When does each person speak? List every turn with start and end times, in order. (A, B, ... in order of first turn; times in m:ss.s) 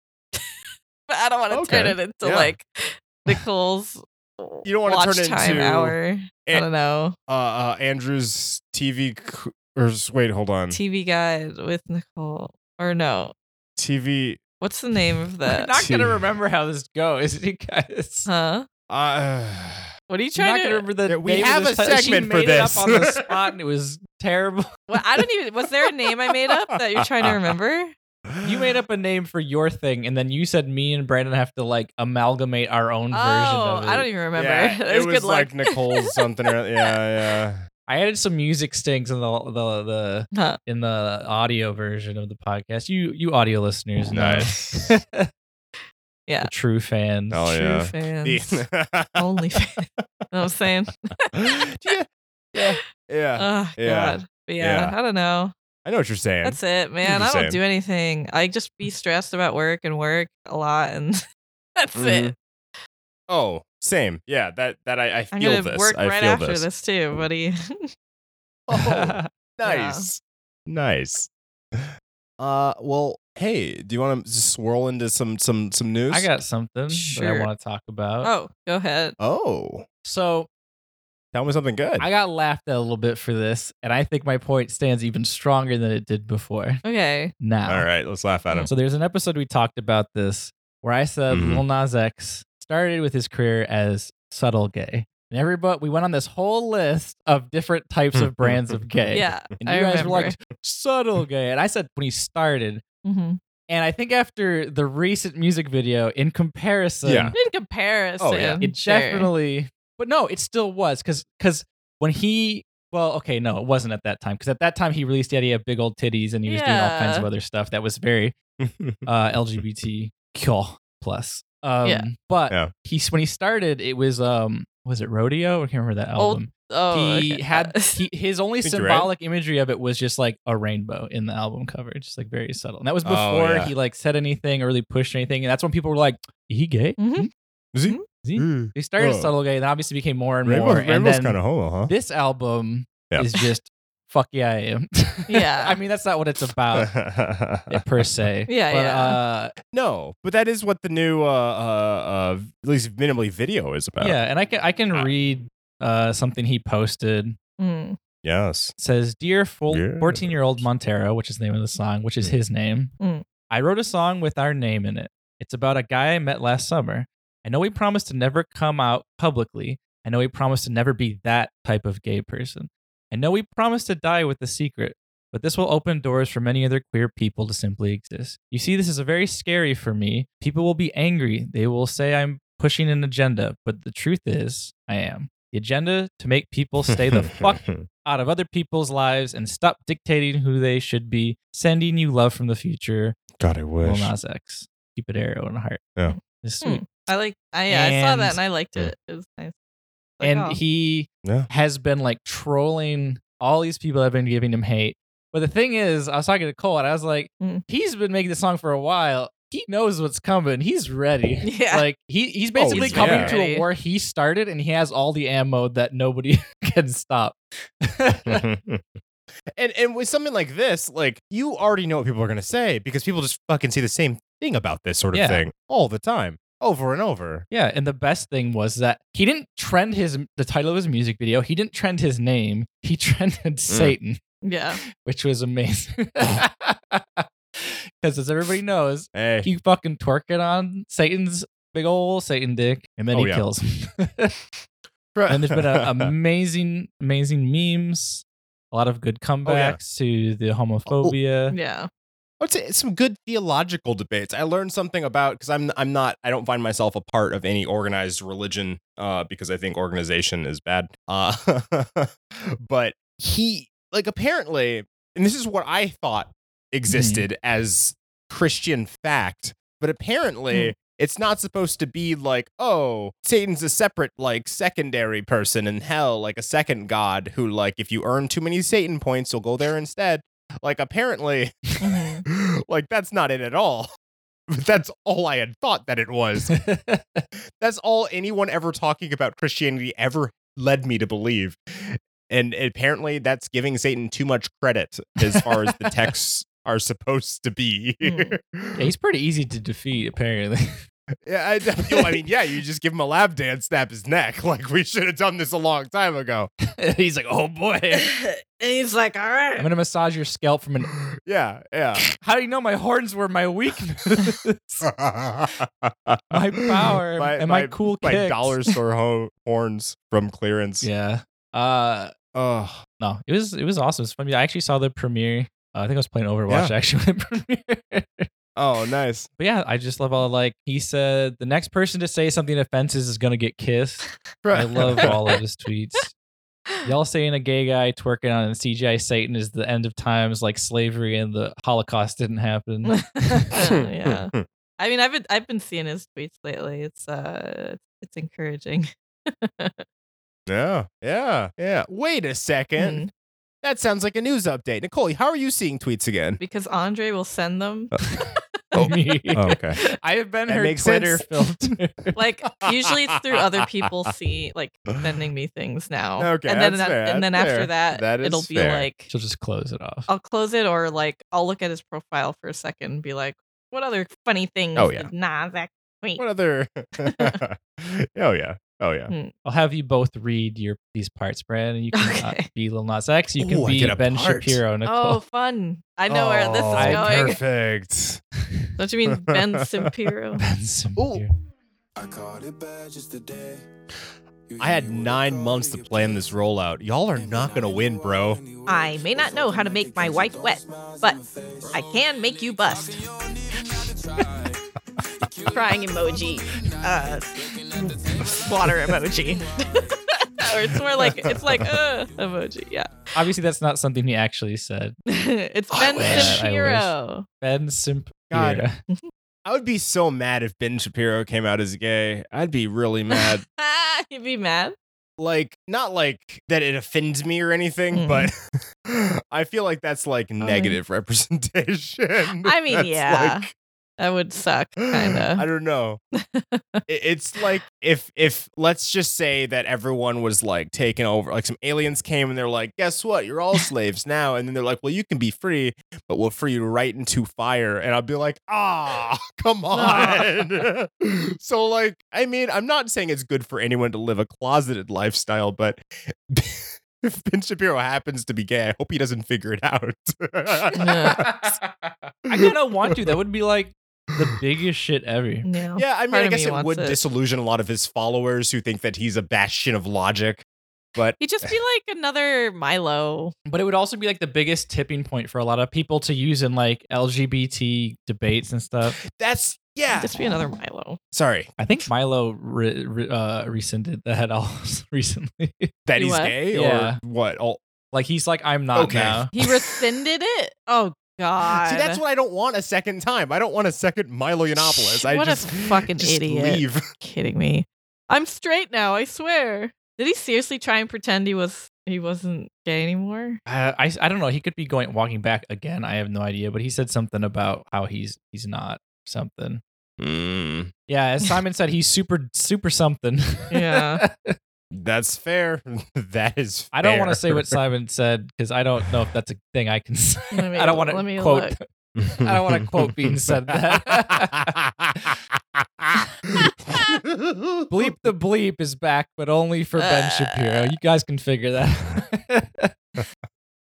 0:01.1-0:07.2 A
0:01.5-0:02.5 B
0:04.6-0:06.7 B
0:07.3-0:10.8 B
0:10.7-0:13.3 A
0:13.8-0:14.4 B
0:14.6-0:15.8 A
0:15.5-0:18.3 C
0:15.8-0:16.2 B
0:18.3-0:18.7 A
0:18.9-0:19.9 B
0:20.1-0:20.9 A
0:20.4-0:24.8 C
0:21.1-0:23.3 B
0:24.9-0:27.9 A
0:27.0-0:27.5 B
0:28.3-0:28.7 B
0:28.4-0:34.1 C
0:33.1-0:36.2 A
0:34.4-0:37.7 B
0:37.9-0:45.3 C
0:40.3-0:40.6 A
0:44.1-0:45.0 B
0:46.4-0:47.6 C
0:47.3-0:49.3 B
0:47.6-0:48.6 A
0:49.2-0:51.5 A
0:51.3-0:54.9 B
0:53.4-0:55.5 A
0:55.8-0:57.6 B
0:56.4-1:01.2 A
1:01.8-1:02.4 A
1:02.0-1:02.3 B
1:03.3-1:06.7 B
1:05.3-1:07.9 A
1:08.7-1:16.3 B
1:08.9-1:09.2 C
1:09.6-1:10.1 A
1:16.1-1:18.3 C
1:16.9-1:17.5 A
1:18.2-1:19.2 A
1:19.2-1:19.9 B
1:20.0-1:20.5 C
1:21.3-1:22.1 B
1:22.0-1:26.8 C
1:26.8-1:27.3 A
1:27.4-1:27.9 C
1:27.7-1:28.7 B
1:28.7-1:42.8 C
1:31.3-1:31.6 B
1:38.2-1:38.8 B
1:39.1-1:40.4 A
1:43.0-1:43.4 A
1:43.7-1:47.4 C
1:47.0-1:47.4 B
1:47.4-1:49.3 A
1:48.2-1:48.6 B
1:48.6-1:58.4 C
1:56.5-1:57.3 A
1:58.6-1:59.1 B
1:59.1-2:17.3 C
2:06.2-2:08.0 A
2:08.6-2:09.1 B
2:13.0-2:13.7 B
2:17.0-2:17.3 A
2:17.7-2:19.3 B
2:18.2-2:26.9 C
2:20.4-2:21.9 B
2:25.3-2:25.8 A
2:26.8-2:27.8 B
2:27.7-2:29.5 C
2:28.5-2:29.2 A
2:29.7-2:34.2 B
2:34.0-2:37.4 C
2:37.6-2:38.0 A
2:38.2-2:38.7 B
2:38.8-2:42.9 C
2:39.7-2:40.6 B
2:43.0-2:43.2 A
2:43.5-3:13.2 C
3:06.9-3:07.9 B
3:13.4-3:14.1 B
3:13.8-3:15.9 C
3:16.1-3:19.5 A
3:16.4-3:16.8 C
3:17.7-3:18.4 C
3:20.2-3:20.6 A
3:20.2-3:38.4 C
3:21.2-3:21.5 B
3:31.4-3:31.8 A
3:32.6-3:33.3 B
3:32.7-3:33.6 A
3:38.3-3:39.0 B
3:39.5-3:47.5 B
3:45.1-3:45.4 C
3:47.5-3:54.2 C
3:53.7-3:54.0 B
3:54.4-3:54.8 A
3:54.9-4:04.4 C
3:59.1-3:59.5 B
4:03.1-4:03.4 B
4:05.1-4:06.1 B
4:05.3-4:11.6 C
4:09.4-4:09.8 B
4:10.9-4:11.2 B
4:11.5-4:11.9 A
4:12.4-4:41.7 B
4:26.9-4:27.3 C
4:41.8-4:42.2 A
4:42.2-4:43.9 B
4:44.5-4:46.6 B
4:46.5-4:47.2 C
4:47.6-4:58.9 B
4:55.3-4:55.9 C
4:58.0-4:58.4 A
4:58.8-5:00.8 C
5:01.2-5:06.5 B
5:06.6-5:08.1 C
5:07.9-5:09.7 A
5:09.6-5:10.9 C
5:11.1-5:12.0 B
5:12.2-5:14.9 C
5:14.8-5:20.9 B
5:16.3-5:18.6 C
5:20.8-5:22.1 C
5:22.3-5:22.8 B
5:23.0-5:28.3 C
5:26.5-5:26.7 B
5:28.6-5:29.3 B
5:29.4-5:36.1 C
5:34.4-5:35.2 B
5:36.8-5:43.5 C
5:42.9-5:49.8 A
5:43.6-5:44.4 B
5:50.5-5:53.1 B
5:52.8-5:53.1 A
5:53.6-5:56.4 B
5:56.4-5:59.0 A
5:58.1-6:02.2 C
5:58.7-5:59.8 B
6:00.5-6:01.7 B
6:02.2-6:09.1 A
6:02.6-6:03.9 B
6:06.2-6:08.9 B
6:09.1-6:10.1 C
6:10.1-6:16.2 A
6:14.8-6:15.1 B
6:16.2-6:19.1 B
6:17.0-6:17.4 A
6:19.4-6:25.2 C
6:21.9-6:22.5 A
6:23.4-6:24.6 B
6:24.8-6:27.4 A
6:26.1-6:28.2 B
6:26.7-6:27.4 C
6:28.8-6:30.4 A
6:29.1-6:29.9 B
6:30.4-6:31.3 C
6:31.0-6:31.2 B
6:32.0-6:33.6 D
6:34.5-6:36.3 D
6:34.6-6:38.4 B
6:37.2-6:50.0 D
6:38.7-6:41.2 A
6:41.7-6:43.0 A
6:45.5-6:52.9 A
6:51.1-6:51.7 D
6:51.1-6:51.6 B
6:53.2-6:55.0 C
6:55.1-6:57.3 A
6:55.7-6:56.4 B
6:56.0-6:58.8 C
6:58.3-6:58.6 B
6:59.5-7:03.4 B
7:03.1-7:04.8 A
7:05.2-7:13.5 B
7:07.9-7:08.3 A
7:10.4-7:10.8 A
7:12.4-7:13.5 A
7:14.0-7:15.4 A
7:14.8-7:16.0 B
7:16.2-7:16.8 A
7:16.9-7:41.5 B
7:29.7-7:30.3 A
7:40.8-7:41.2 A
7:40.8-7:45.5 C
7:42.3-7:43.1 B
7:45.4-7:47.0 A
7:45.8-7:51.2 B
7:51.2-7:53.3 A
7:53.5-7:59.0 C
7:59.1-8:00.4 B
7:59.9-8:01.0 A
8:01.1-8:01.5 B
8:01.6-8:05.7 C
8:05.9-8:07.6 B
8:06.0-8:06.4 A
8:06.5-8:07.0 C
8:07.9-8:09.3 C
8:08.8-8:09.8 B
8:09.3-8:12.0 A
8:11.5-8:16.8 B
8:14.7-8:23.4 A
8:23.5-8:29.6 C
8:30.0-8:30.7 B
8:30.9-8:34.4 C
8:33.5-8:34.0 A
8:34.7-8:37.6 B
8:36.7-8:44.6 C
8:40.3-8:41.5 A
8:42.0-8:47.9 B
8:47.7-8:52.7 C
8:49.8-8:50.7 A